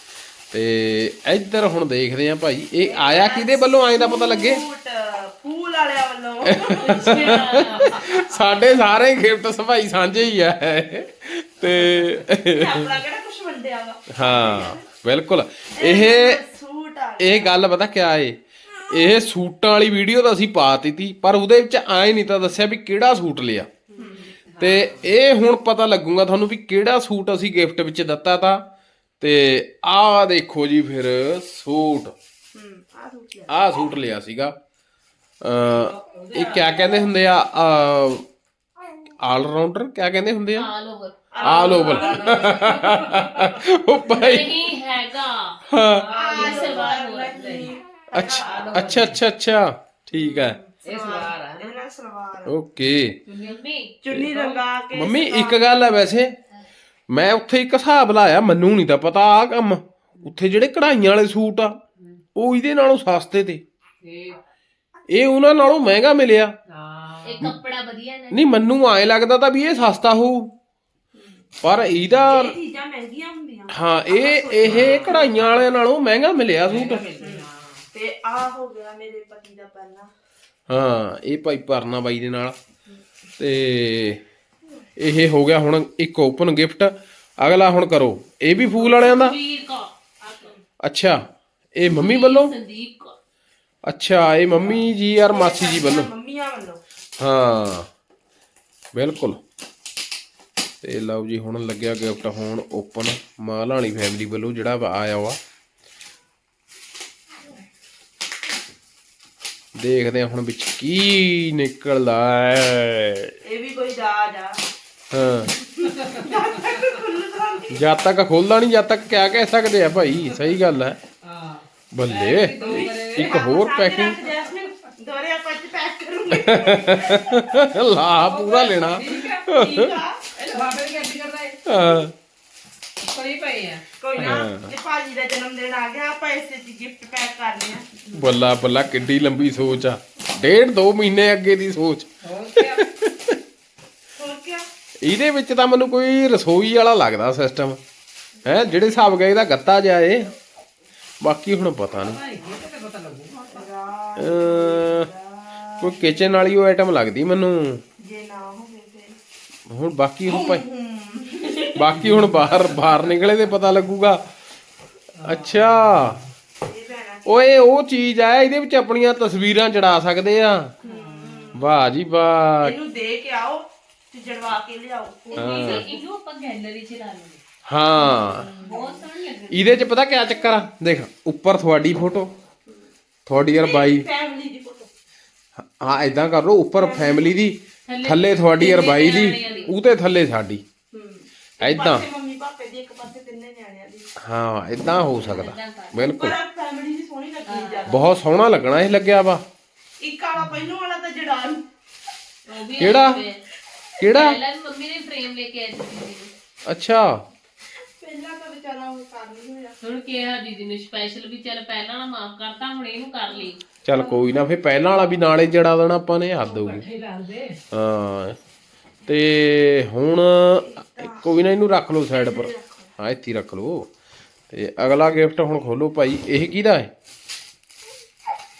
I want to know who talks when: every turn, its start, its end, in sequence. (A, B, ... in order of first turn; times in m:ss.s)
0:00.5-0:04.6 A
0:02.6-0:07.6 B
0:06.4-0:12.9 A
0:06.8-0:08.0 C
0:12.5-0:14.9 B
0:14.1-0:16.4 A
0:15.8-0:17.5 B
0:17.2-0:18.4 A
0:18.9-0:23.7 A
0:24.0-0:24.4 B
0:24.5-0:25.1 D
0:24.6-0:28.6 A
0:29.2-0:32.2 A
0:32.5-0:33.6 B
0:33.5-0:34.5 A
0:35.4-0:38.2 A
0:35.7-0:37.0 D
0:39.2-0:40.7 A
0:40.6-0:41.8 C
0:41.3-0:42.7 B
0:41.4-0:44.7 A
0:41.6-0:43.6 D
0:44.0-0:45.6 C
0:45.7-0:46.1 A
0:46.0-0:47.0 D
0:46.1-0:49.0 B
0:46.3-0:47.7 C
0:48.1-0:50.6 A
0:48.2-0:49.2 D
0:50.1-0:52.6 B
0:50.8-0:51.7 D
0:52.4-0:53.2 A
0:53.3-0:53.6 D
0:53.4-0:54.0 C
0:54.0-0:55.9 B
0:54.1-0:54.4 A
0:54.3-0:54.6 D
0:54.9-0:56.4 A
0:57.1-1:01.8 A
1:02.4-1:03.6 A
1:04.0-1:04.4 D
1:05.1-1:06.5 A
1:06.7-1:07.5 D
1:07.2-1:08.5 C
1:08.3-1:10.5 A
1:11.1-1:11.5 B
1:11.6-1:12.6 A
1:12.2-1:15.7 B
1:13.7-1:17.0 A
1:14.6-1:15.5 D
1:16.7-1:17.9 D
1:17.1-1:20.1 B
1:20.7-1:22.6 A
1:23.4-1:24.2 A
1:25.0-1:29.4 A
1:28.7-1:30.6 C
1:30.8-1:31.2 A
1:31.8-1:32.5 A
1:31.8-1:33.2 C
1:33.9-1:36.1 A
1:34.7-1:36.8 B
1:37.2-1:37.9 A
1:38.9-1:39.4 A
1:40.8-1:45.4 A
1:49.8-1:53.4 A
1:53.4-1:54.6 B
1:55.1-1:55.5 A
1:55.3-1:58.1 B
1:56.1-1:56.5 D
1:57.7-2:01.0 A
2:00.1-2:00.4 D
2:01.2-2:03.4 D
2:01.9-2:04.2 A
2:02.6-2:07.6 B
2:06.3-2:10.0 A
2:08.2-2:09.5 D
2:09.2-2:10.3 B
2:10.4-2:11.7 D
2:11.7-2:12.1 A
2:13.1-2:14.4 D
2:14.0-2:18.2 B
2:14.2-2:14.7 A
2:18.1-2:23.4 A
2:22.2-2:22.8 D
2:24.2-2:24.7 B
2:25.0-2:27.8 A
2:28.4-2:30.3 A
2:31.2-2:32.2 A
2:31.9-2:33.6 D
2:33.4-2:36.4 B
2:34.2-2:35.1 A
2:35.8-2:37.8 A
2:38.0-2:39.2 B
2:39.7-2:40.6 A
2:40.3-2:42.9 B
2:41.7-2:44.3 A
2:42.0-2:42.5 D
2:45.2-2:46.3 D
2:45.2-2:46.2 A
2:46.6-2:47.7 B
2:47.3-2:50.8 A
2:50.8-2:51.7 B
2:50.8-2:51.6 D
2:51.6-2:52.8 A
2:52.6-2:55.9 B
2:55.3-2:57.4 C
2:55.4-2:55.9 A
2:57.7-2:58.5 A
2:58.0-2:59.0 B
2:58.5-2:59.8 C
2:59.5-3:02.3 A
3:03.3-3:04.1 A
3:03.5-3:04.9 B
3:05.6-3:10.6 A
3:06.8-3:07.4 B
3:07.9-3:09.7 C
3:09.4-3:09.7 B
3:10.9-3:14.1 B
3:11.6-3:12.0 A
3:14.2-3:16.4 A
3:14.8-3:16.1 C
3:16.1-3:18.1 B
3:17.5-3:18.0 C
3:17.9-3:19.4 A
3:20.0-3:21.7 B
3:22.5-3:23.4 C
3:22.8-3:23.2 A
3:24.0-3:24.4 A
3:24.0-3:26.3 C
3:26.7-3:27.2 A
3:27.8-3:29.8 B
3:29.8-3:33.6 C
3:33.3-3:34.4 B
3:33.8-3:36.8 A
3:36.4-3:37.6 D
3:37.7-3:38.4 A
3:39.1-3:43.9 A
3:40.6-3:41.3 B
3:42.1-3:42.9 B
3:44.5-3:46.9 A